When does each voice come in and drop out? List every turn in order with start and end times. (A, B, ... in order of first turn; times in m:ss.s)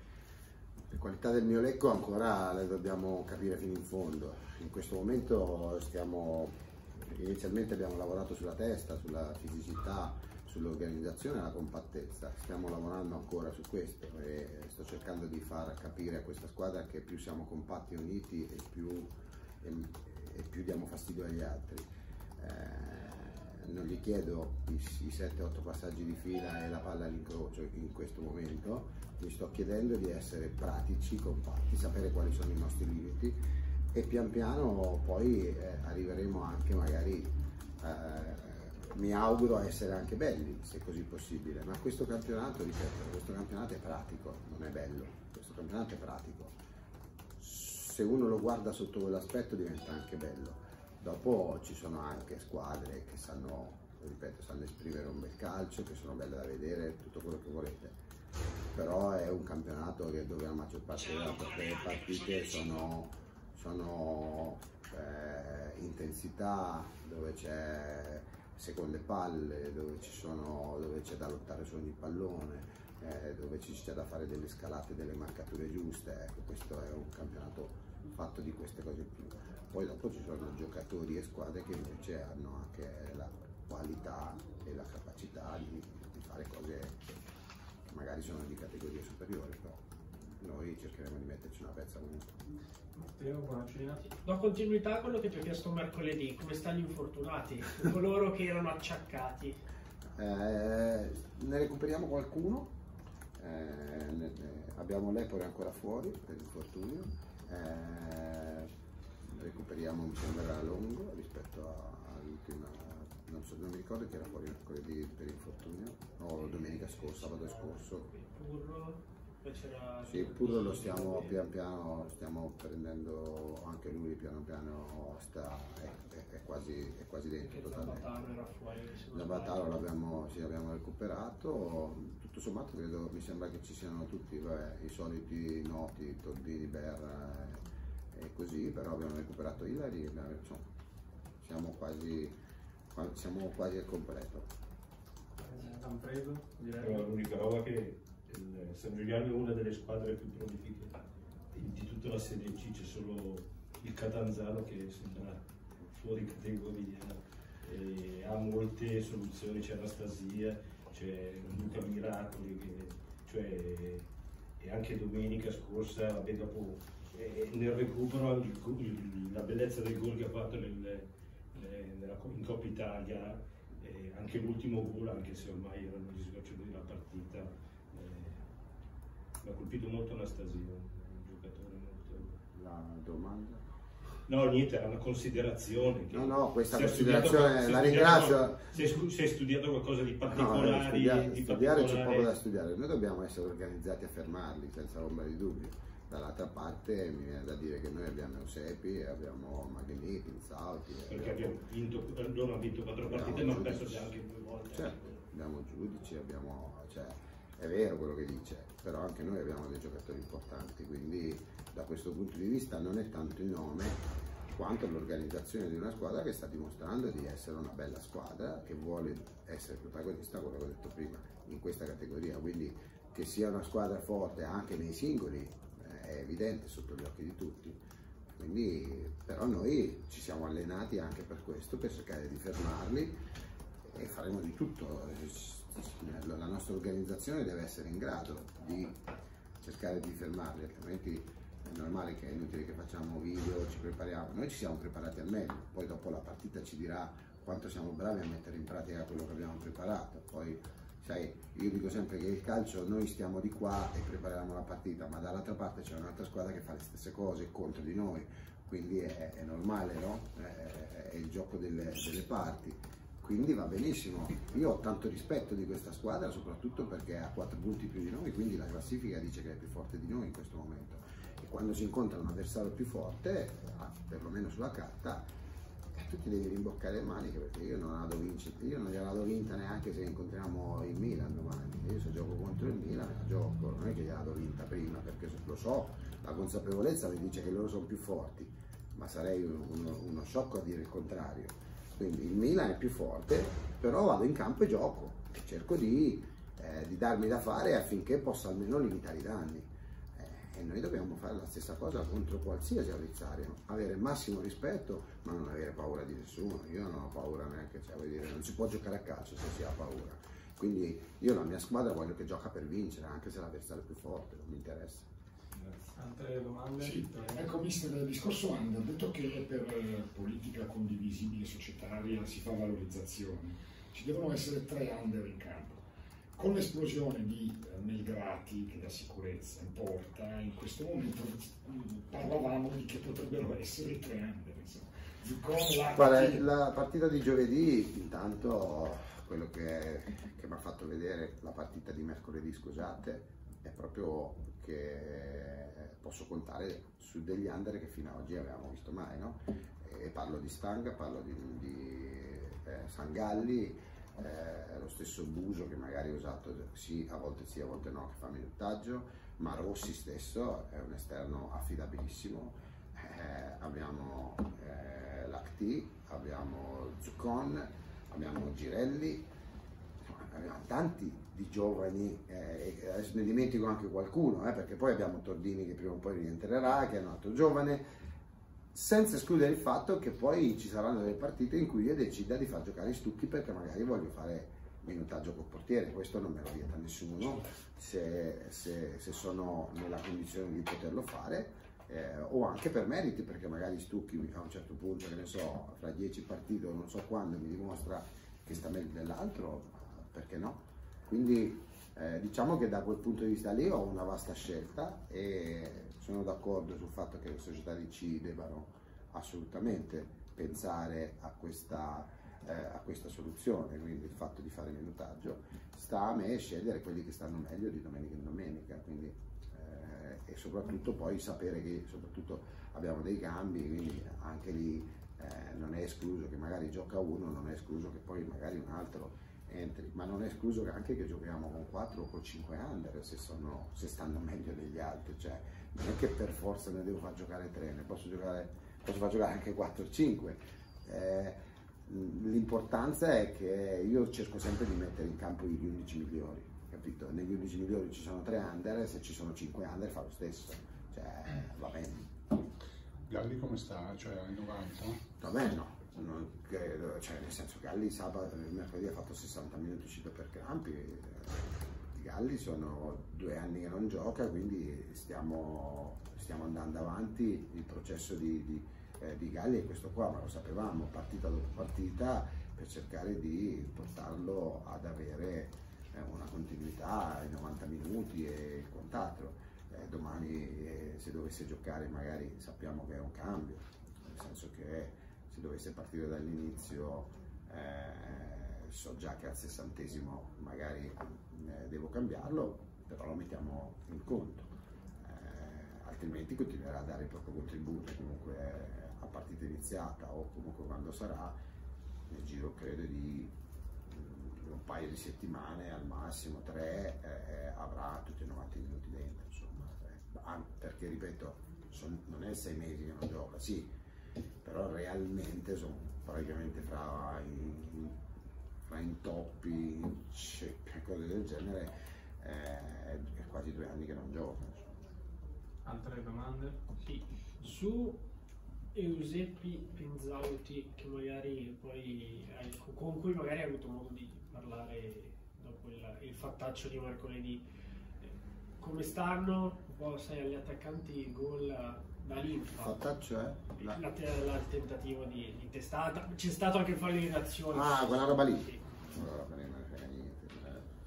0:00.9-0:33.4 A
0:33.9-0:46.5 A
0:47.4-0:58.0 A
0:58.7-1:27.2 A
1:27.9-1:32.4 A
1:33.0-1:34.0 B
1:34.1-1:39.6 C
1:40.2-1:42.8 A
1:43.4-1:48.7 A
1:49.2-1:58.1 A
1:57.0-2:01.4 C
2:00.0-2:08.1 A
2:07.4-2:09.8 C
2:09.1-2:20.7 A
2:21.4-2:22.3 A
2:22.9-2:24.5 A
2:25.4-2:27.0 B
2:26.8-2:30.9 D
2:31.5-2:44.1 D
2:44.6-2:58.4 D
2:59.4-3:02.4 D
3:02.5-3:03.6 A
3:04.3-3:12.3 D
3:06.1-3:08.7 A
3:10.3-3:21.6 A
3:21.1-3:25.0 D
3:23.1-3:47.8 A
3:48.3-3:53.2 A
3:53.9-3:59.0 A
3:59.6-4:35.3 A
4:35.9-5:15.1 A
5:15.8-5:17.5 B
5:16.8-5:25.8 E
5:26.4-5:36.4 E
5:35.9-6:09.3 A
6:10.0-6:17.9 A
6:18.7-7:32.1 A
7:33.1-7:35.0 F
7:35.2-8:14.5 A
8:15.0-8:21.4 A
8:22.1-8:23.3 A
8:23.9-8:33.7 A
8:34.4-8:38.0 A
8:38.6-8:44.7 A
8:45.6-8:46.6 B
8:46.8-8:48.0 C
8:48.7-8:57.4 C
8:58.0-9:02.8 C
9:02.6-9:03.8 A
9:03.6-9:08.6 C
9:07.5-9:10.7 A